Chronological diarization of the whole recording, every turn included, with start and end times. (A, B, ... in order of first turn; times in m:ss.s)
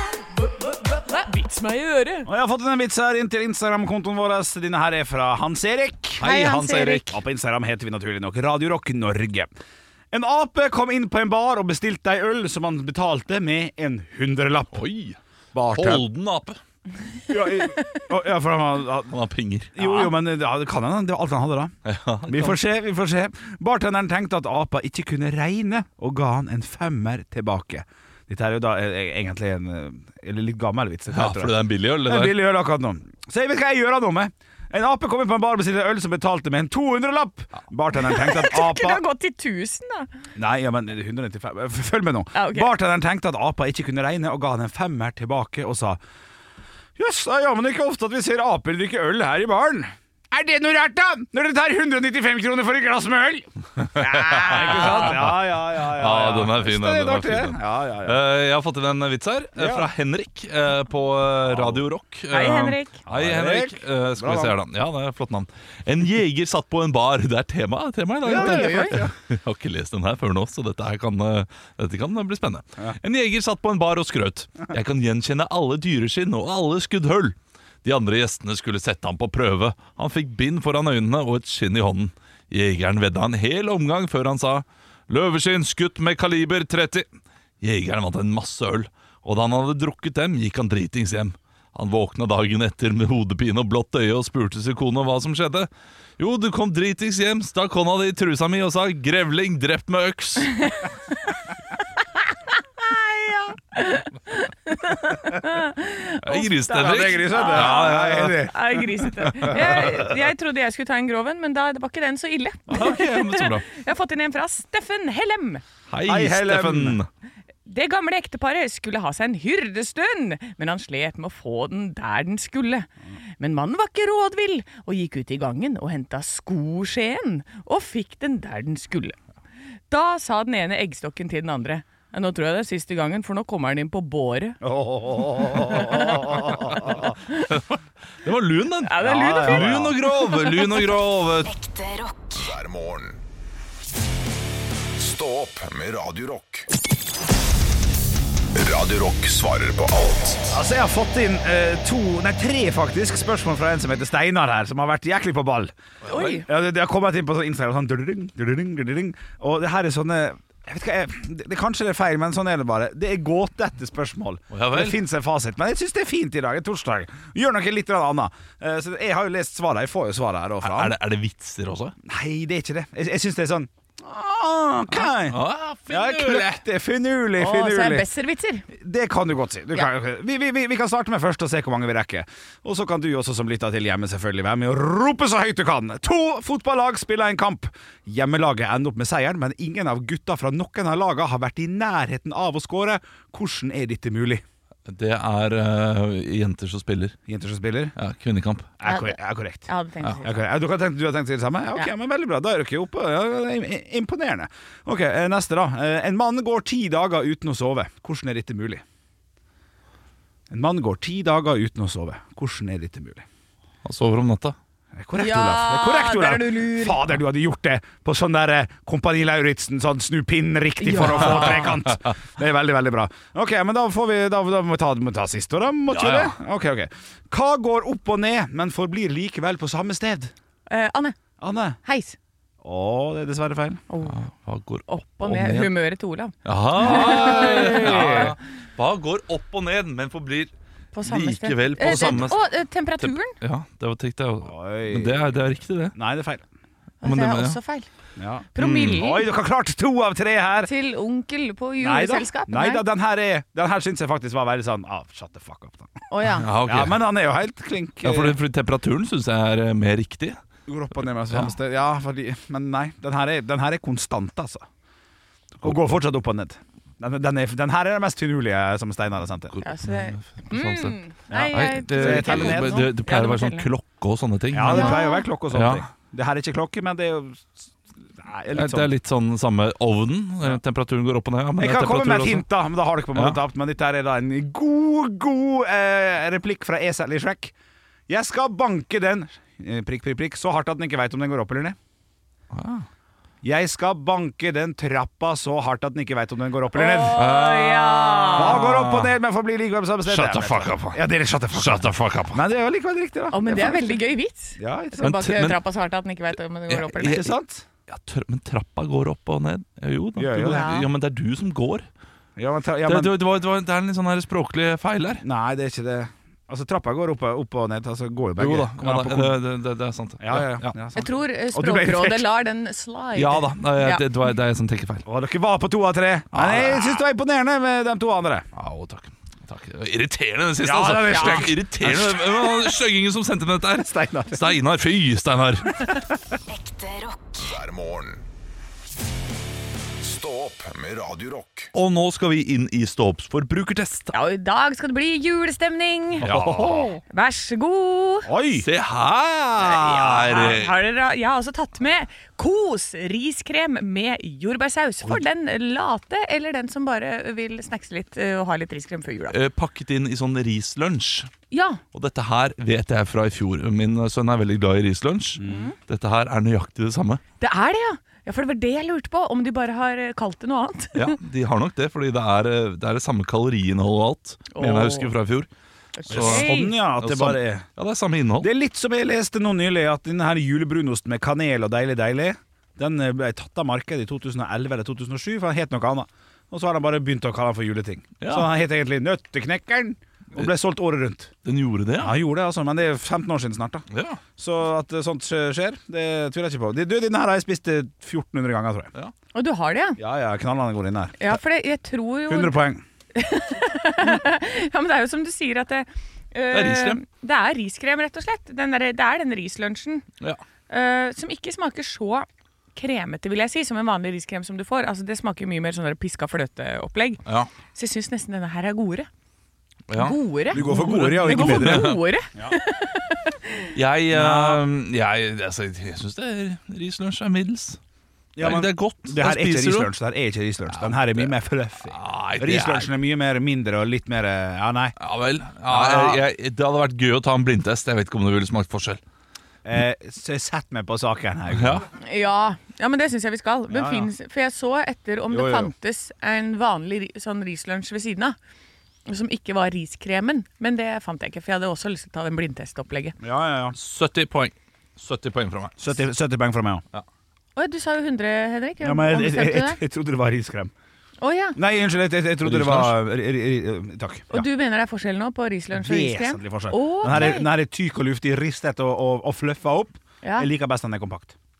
0:00.7-0:02.3 A
0:02.3-0:06.3 B
0:06.2-0:07.1 C
0:06.2-0:07.2 A
0:07.1-0:09.5 B
0:10.1-0:14.8 B
0:14.7-0:15.2 C
0:15.5-0:16.0 B
0:15.7-0:16.6 C
0:17.3-0:19.1 B
0:19.1-0:19.8 C
0:19.8-0:21.8 B
0:19.8-0:20.1 A
0:21.8-0:22.6 C
0:22.3-0:39.0 B
0:31.1-0:32.4 C
0:37.9-0:40.1 A
0:40.4-0:46.0 B
0:42.3-0:42.7 A
0:47.0-0:58.2 B
0:54.0-1:27.1 C
0:54.6-0:54.9 A
0:59.6-0:59.9 B
1:01.5-1:01.8 B
1:02.3-1:03.0 A
1:03.1-1:04.5 B
1:08.2-1:09.1 B
1:08.3-1:09.0 A
1:27.6-1:40.7 C
1:42.5-1:55.6 A
1:46.2-1:48.5 C
1:46.8-1:48.8 B
1:49.2-1:50.0 C
1:49.4-1:49.8 B
1:52.7-1:53.7 C
1:55.9-1:57.1 C
1:56.1-1:57.0 B
1:57.6-2:09.2 A
2:09.9-2:14.6 A
2:14.6-2:17.2 B
2:15.5-2:17.5 A
2:17.5-2:21.5 C
2:18.8-2:20.9 A
2:19.0-2:20.0 B
2:21.4-2:23.2 D
2:24.9-2:26.7 D
2:28.5-2:30.6 D
2:30.5-2:35.7 B
2:36.0-2:36.4 C
2:36.1-2:36.5 A
2:36.4-2:51.0 B
2:44.5-2:45.0 C
2:50.6-2:51.9 C
2:52.0-2:58.1 B
2:54.9-2:56.6 C
2:57.4-2:58.7 A
2:58.7-3:14.4 B
3:14.9-3:17.2 C
3:17.3-3:17.9 B
3:18.0-3:18.7 C
3:18.8-3:19.7 B
3:18.8-3:20.4 A
3:20.2-3:28.8 B
3:30.5-3:33.2 B
3:33.8-3:34.6 C
3:34.9-3:50.3 B
3:35.1-3:37.0 A
3:40.8-3:41.8 A
3:41.1-3:41.8 C
3:45.9-3:46.3 C
3:50.7-3:51.2 A
3:51.4-3:51.8 B
3:51.8-3:52.2 A
3:52.6-3:53.8 B
3:53.9-3:54.2 A
3:54.0-3:55.7 C
3:54.9-3:58.3 A
3:56.4-4:00.5 C
3:56.8-3:58.3 B
4:00.9-4:03.4 A
4:01.0-4:02.4 C
4:03.0-4:06.0 C
4:04.4-4:05.3 B
4:05.9-4:06.4 B
4:07.0-4:07.9 A
4:07.0-4:07.6 C
4:08.2-4:10.7 B
4:08.5-4:09.3 A
4:08.6-4:09.0 C
4:10.6-4:12.8 A
4:11.8-4:16.0 B
4:16.1-4:16.5 A
4:16.4-4:17.0 C
4:16.6-4:18.4 B
4:18.0-4:20.4 C
4:20.7-4:24.6 B
4:21.3-4:21.5 C
4:25.6-4:29.6 B
4:25.6-4:26.0 C
4:29.5-4:35.8 C
4:29.6-4:33.7 A
4:31.3-4:32.9 B
4:34.5-4:38.9 B
4:34.6-4:35.3 A
4:38.5-4:42.5 C
4:41.6-4:47.5 B
4:43.1-4:43.4 C
4:48.1-4:51.8 B
4:52.5-4:52.9 C
4:53.4-4:57.3 B
4:56.7-4:58.6 A
4:57.1-4:59.1 C
4:58.4-5:04.0 B
5:00.1-5:01.0 C
5:01.5-5:02.4 C
5:03.3-5:07.3 A
5:04.6-5:05.1 B
5:05.0-5:05.6 C
5:06.7-5:07.3 C
5:07.0-5:07.6 B
5:07.9-5:11.9 C
5:10.2-5:10.7 B
5:10.4-5:10.9 A
5:12.4-5:13.1 B
5:12.8-5:15.2 C
5:15.2-5:19.4 B
5:18.4-5:20.7 C
5:20.2-5:22.2 B
5:20.9-5:24.0 A
5:23.1-5:25.0 C
5:25.1-5:28.5 B
5:26.3-5:27.0 C
5:28.6-5:35.9 C
5:30.6-5:32.7 B
5:31.1-5:31.5 A
5:33.8-5:34.5 B
5:36.5-5:38.2 D
5:40.0-5:41.7 D
5:41.7-5:44.1 C
5:44.1-5:46.3 A
5:46.2-5:46.9 B
5:46.2-5:47.0 C
5:47.1-5:48.3 A
5:48.3-5:48.7 B
5:48.6-5:50.7 C
5:49.6-5:59.4 A
5:59.3-6:01.3 C
6:01.5-6:01.8 A
6:01.9-6:07.2 C
6:05.4-6:05.7 B
6:05.4-6:05.8 A
6:07.4-6:11.2 A
6:10.9-6:15.5 C
6:14.5-6:15.1 A
6:16.0-6:16.8 A
6:16.1-6:17.6 B
6:16.1-6:18.5 C
6:18.4-6:31.3 B
6:28.2-6:28.5 C
6:31.4-6:32.2 C
6:32.0-6:38.9 B
6:33.9-6:34.2 C
6:39.3-6:40.0 A
6:40.0-6:41.3 B
6:41.2-6:42.6 A
6:42.3-6:42.8 B
6:43.1-6:50.1 A
6:46.5-6:47.0 C
6:50.7-6:57.2 A
6:57.2-6:57.5 C
6:57.7-6:59.1 A
6:59.9-7:02.0 C
7:00.0-7:03.7 A
7:00.5-7:02.6 B
7:03.8-7:07.8 C
7:04.1-7:04.6 B
7:08.4-7:14.9 B
7:08.4-7:09.9 C
7:10.6-7:11.3 C
7:11.9-7:12.9 C
7:15.0-7:19.0 C
7:15.7-7:16.2 B
7:19.6-7:21.8 B
7:21.5-7:21.8 C
7:22.0-7:28.4 A
7:23.7-7:24.1 B
7:25.3-7:25.7 B
7:29.1-7:33.2 A
7:33.2-7:33.8 B
7:33.7-7:35.8 C
7:35.8-7:36.8 B
7:37.6-7:39.8 A
7:38.8-7:40.7 B
7:41.2-7:41.6 A
7:41.6-7:44.5 B
7:42.4-7:43.0 C
7:44.3-7:47.5 A
7:45.7-7:51.3 B
7:47.1-7:47.4 C
7:50.2-7:50.5 A